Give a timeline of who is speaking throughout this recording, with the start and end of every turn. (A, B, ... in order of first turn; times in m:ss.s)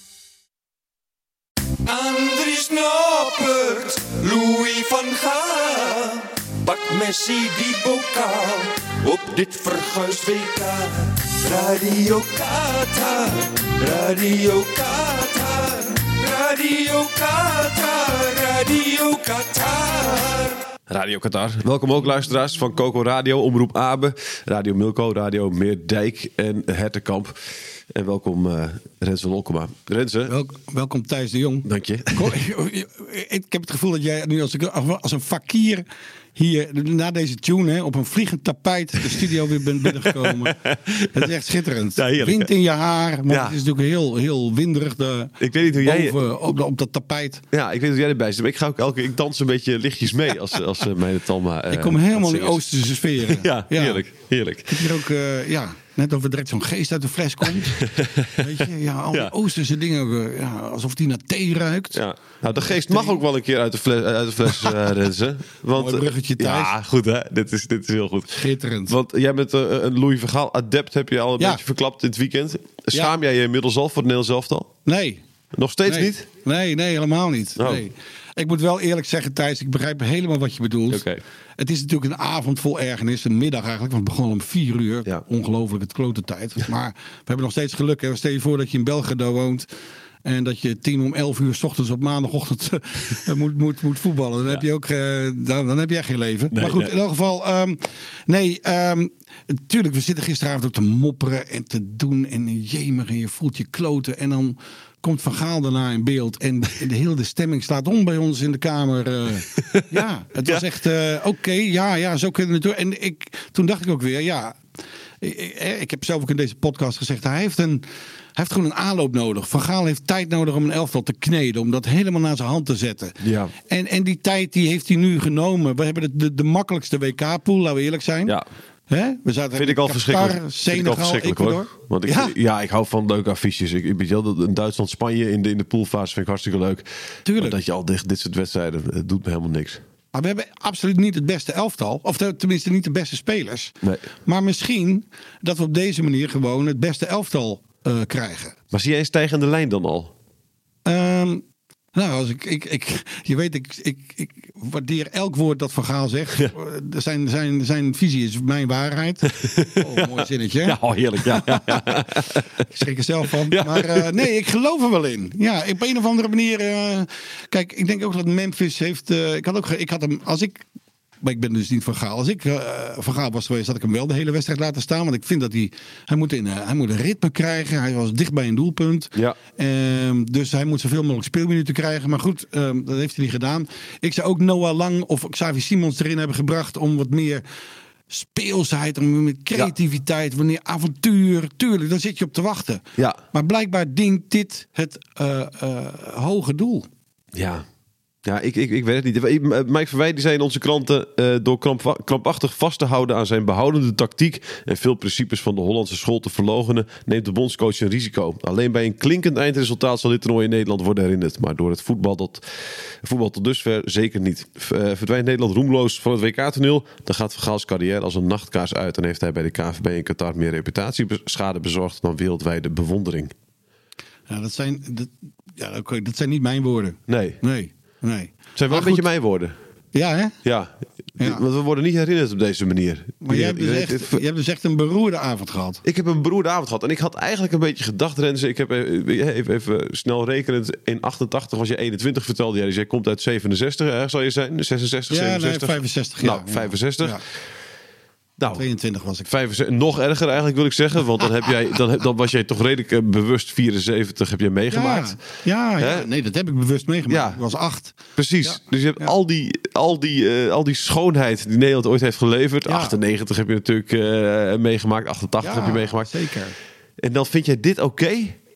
0:01.8-0:20.6 A
0:20.9-0:27.4 B
0:27.9-0:30.3 B
0:30.3-0:47.4 C
0:31.6-0:32.3 B
0:39.8-0:41.3 B
0:42.0-0:42.5 B
0:43.3-0:43.6 B
0:45.4-0:46.2 B
0:47.5-0:52.6 B
0:51.7-0:54.0 C
0:53.2-0:55.0 B
0:54.7-0:57.9 C
0:57.8-0:59.3 B
0:58.4-1:02.0 C
1:01.9-1:14.7 B
1:02.7-1:03.2 C
1:05.8-1:06.7 C
1:08.4-1:08.9 C
1:14.8-1:15.2 C
1:15.5-1:16.3 B
1:15.9-1:21.0 C
1:17.6-1:17.8 B
1:20.9-1:21.2 B
1:21.6-1:29.7 C
1:30.2-1:54.6 C
1:36.5-1:36.9 B
1:49.6-1:50.6 B
1:55.2-1:57.8 C
1:58.4-2:08.4 C
2:03.2-2:03.5 B
2:08.9-2:12.3 C
2:09.6-2:16.8 B
2:17.2-2:17.6 C
2:17.4-2:19.8 B
2:20.1-2:28.6 C
2:28.7-2:30.1 B
2:30.8-2:41.9 C
2:39.4-2:42.4 B
2:42.7-2:50.6 C
2:43.5-2:44.3 B
2:51.2-3:07.4 C
3:08.1-3:16.9 C
3:17.3-3:17.6 B
3:18.2-3:43.3 B
3:44.3-3:49.0 C
3:47.1-3:47.4 B
3:48.6-3:49.5 B
3:49.9-3:50.3 C
3:50.4-3:54.2 B
3:51.2-3:51.4 C
3:53.2-3:55.8 C
3:55.8-4:07.2 B
4:05.1-4:07.2 C
4:08.4-4:08.6 B
4:08.5-4:09.3 C
4:09.2-4:15.2 B
4:14.7-4:19.1 C
4:15.8-4:16.1 B
4:17.1-4:17.4 B
4:18.2-4:26.1 B
4:22.7-4:22.9 C
4:25.4-4:26.6 C
4:27.0-4:28.4 B